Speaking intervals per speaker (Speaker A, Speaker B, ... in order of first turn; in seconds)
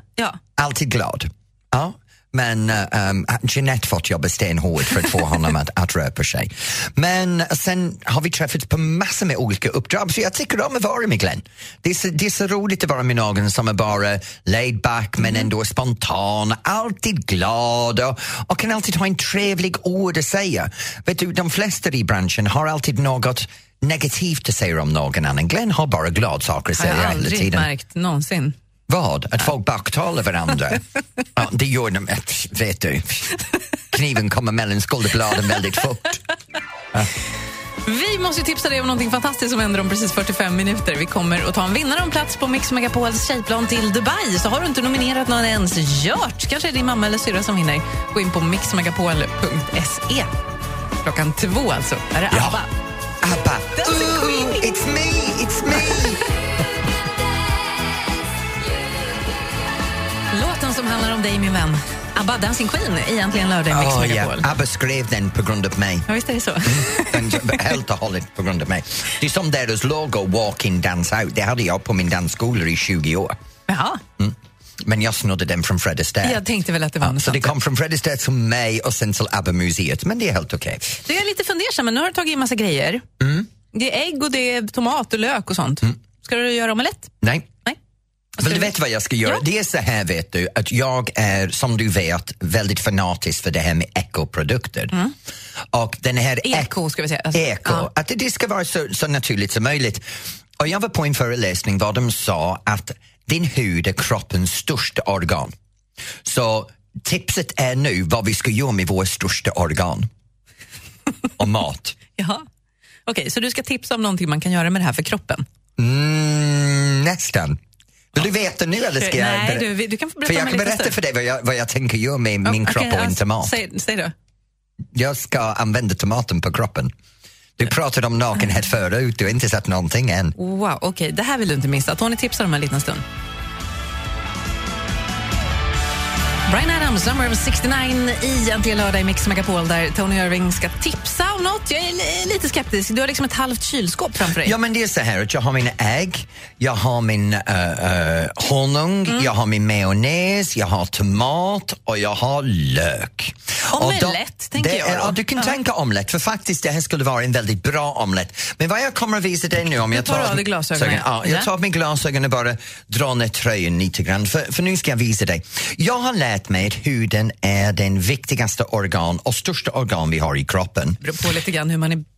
Speaker A: 0.6-27.7, 28.9-30.8, 31.3-33.4, 33.9-36.2, 52.3-52.6, 53.2-56.2, 63.7-66.1, 66.7-73.3, 74.2-76.4, 77.0-80.8, 83.2-83.5, 87.2-87.5, 88.4-94.9, 95.7-96.7, 97.3-100.0, 100.6-105.5, 106.2-110.1, 111.4-112.0, 115.8-117.6, 118.1-119.7, 120.2-123.5, 124.9-126.9, 127.6-130.3, 144.3-171.0
Speaker B: 26.8-28.6, 37.8-50.3, 51.0-52.7, 53.8-54.8, 60.3-64.5, 66.1-67.6, 73.7-74.0, 76.2-77.5, 80.9-83.0, 83.7-87.1, 88.4-89.4, 96.4-97.9, 112.2-112.4, 113.1-115.4, 118.8-121.0, 122.4-124.1, 130.4-133.0, 136.5-144.6, 153.7-155.6, 159.9-161.5, 171.0-172.0